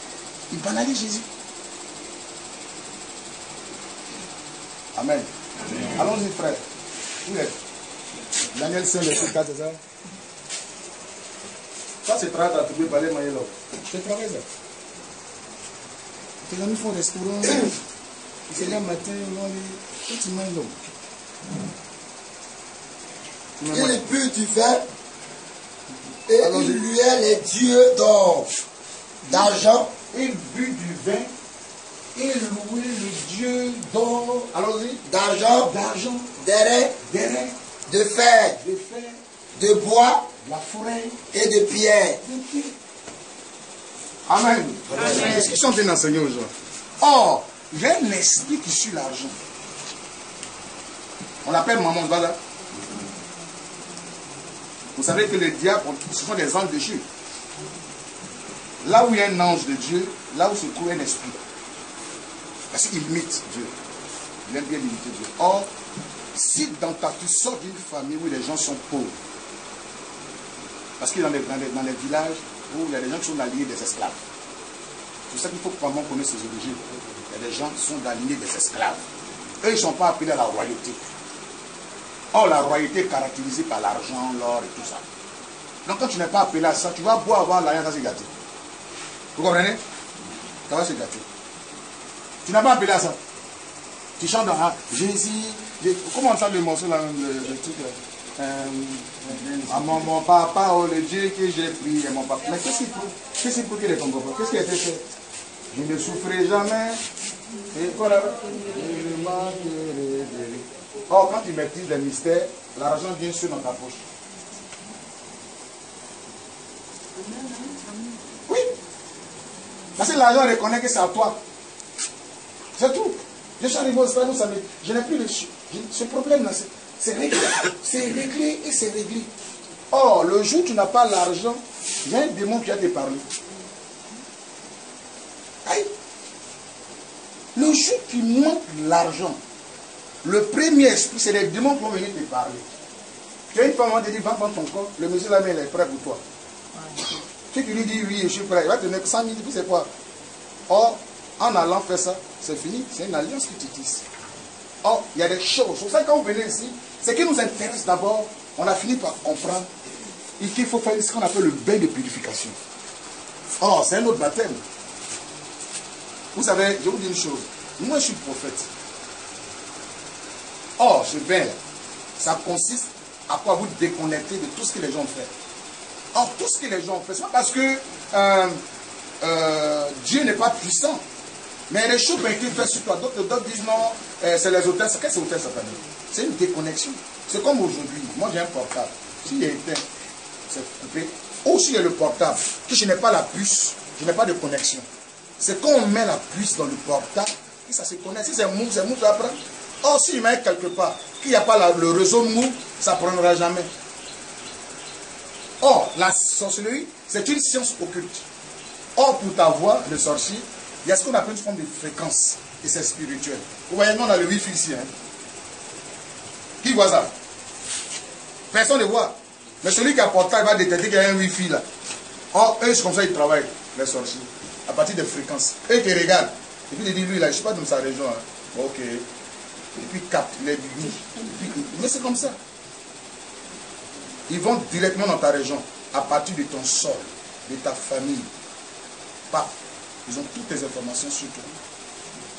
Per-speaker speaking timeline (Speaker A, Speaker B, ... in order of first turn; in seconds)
Speaker A: 0.5-1.3, 4.9-5.3, 5.8-6.6, 7.2-7.6, 8.5-9.8, 12.0-14.4, 16.4-17.8, 18.5-20.8, 23.6-24.0, 26.4-26.8, 29.3-31.3, 32.1-36.4, 37.0-37.5, 38.6-39.2, 40.4-41.2, 42.2-42.8, 44.3-49.4, 51.4-52.4, 55.0-57.0, 58.8-61.4, 62.7-63.7, 64.5-65.7, 66.3-69.2, 71.0-74.2, 75.3-79.0, 79.6-81.0, 82.3-85.0, 85.8-88.3, 89.3-89.8, 90.7-91.2, 92.4-93.2, 94.2-105.0, 105.7-107.0, 107.7-114.0, 120.0-121.4, 122.8-129.3, 129.9-133.2, 135.6-135.9, 137.5-139.4, 140.2-142.7, 143.5-146.2, 147.5-149.9, 150.7-154.0, 154.8-159.7, 160.4-162.6, 163.6-164.6, 166.3-168.7, 170.8-171.6, 172.2-175.3, 176.1-178.6, 179.2-181.0, 181.7-189.8, 190.5-194.8, 195.4-203.7, 205.6-208.2, 208.9-214.9, 216.6-217.1, 218.5-221.6, 222.3-229.1, 229.8-232.4, 234.3-238.3, 240.0-241.6
Speaker B: 23.7-24.9, 26.3-28.5, 29.3-29.9, 35.1-35.7, 36.4-37.0, 37.9-38.6, 39.5-40.3, 41.3-42.2